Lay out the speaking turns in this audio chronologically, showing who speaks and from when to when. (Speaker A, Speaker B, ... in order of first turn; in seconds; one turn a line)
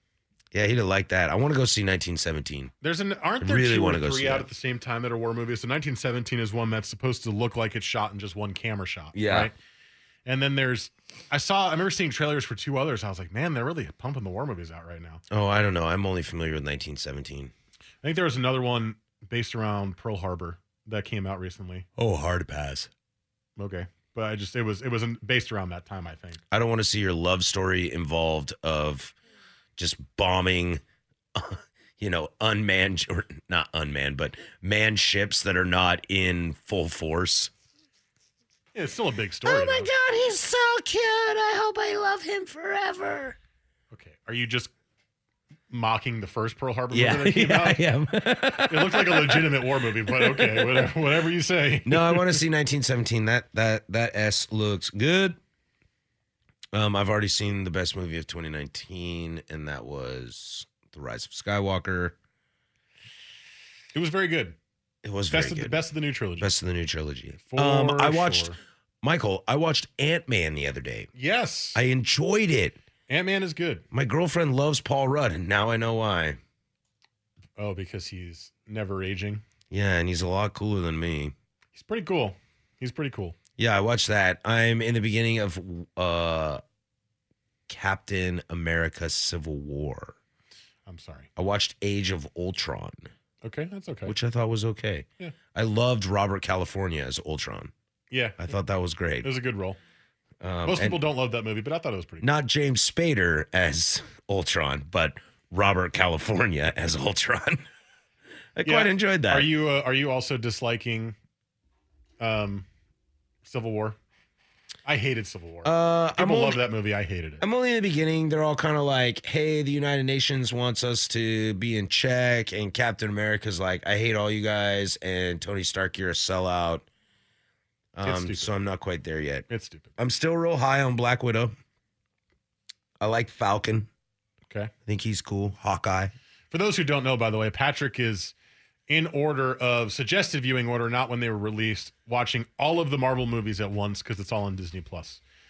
Speaker A: 0.5-2.7
Speaker B: 2.8-9.5
Speaker A: 3.4-4.5
Speaker A: 9.1-9.5
Speaker B: 10.2-15.2
Speaker A: 15.3-17.5
Speaker B: 18.0-21.9
Speaker A: 22.0-22.9
Speaker B: 23.6-26.4
Speaker A: 26.5-29.1
Speaker A: 29.8-30.8
Speaker A: 31.3-37.5
Speaker B: 38.7-39.9
Speaker A: 39.4-43.4
Speaker B: 43.9-44.7
Speaker B: 45.7-47.8
Speaker A: 46.9-50.9
Speaker B: 48.6-52.4
Speaker A: 51.8-55.4
Speaker A: 56.7-62.1
Speaker B: 63.9-64.5
Speaker A: 65.0-65.8
Speaker B: 65.3-66.5
Speaker A: 66.4-71.1
Speaker B: 67.4-68.6
Speaker B: 71.1-71.8
Speaker A: 71.7-72.8
Speaker B: 73.1-73.8
Speaker A: 73.9-76.4
Speaker B: 77.6-79.4
Speaker A: 79.7-81.3
Speaker B: 81.7-83.3
Speaker A: 83.6-86.6
Speaker A: 87.7-90.2
Speaker B: 90.8-91.3
Speaker A: 91.3-93.1
Speaker B: 93.4-94.1
Speaker A: 94.0-97.7
Speaker B: 98.1-98.5
Speaker A: 98.4-99.3
Speaker B: 99.2-99.8
Speaker A: 100.4-101.0
Speaker B: 100.6-102.3
Speaker A: 102.2-107.7
Speaker A: 108.5-109.5
Speaker B: 108.6-111.1
Speaker B: 112.2-112.7
Speaker B: 113.4-114.0
Speaker B: 114.8-117.4
Speaker A: 115.6-116.6
Speaker A: 117.4-126.9
Speaker A: 127.9-129.5
Speaker B: 128.0-128.5
Speaker B: 129.5-129.9
Speaker A: 130.0-131.5
Speaker A: 133.0-133.9
Speaker A: 134.8-136.1
Speaker B: 136.5-138.3
Speaker B: 138.9-145.2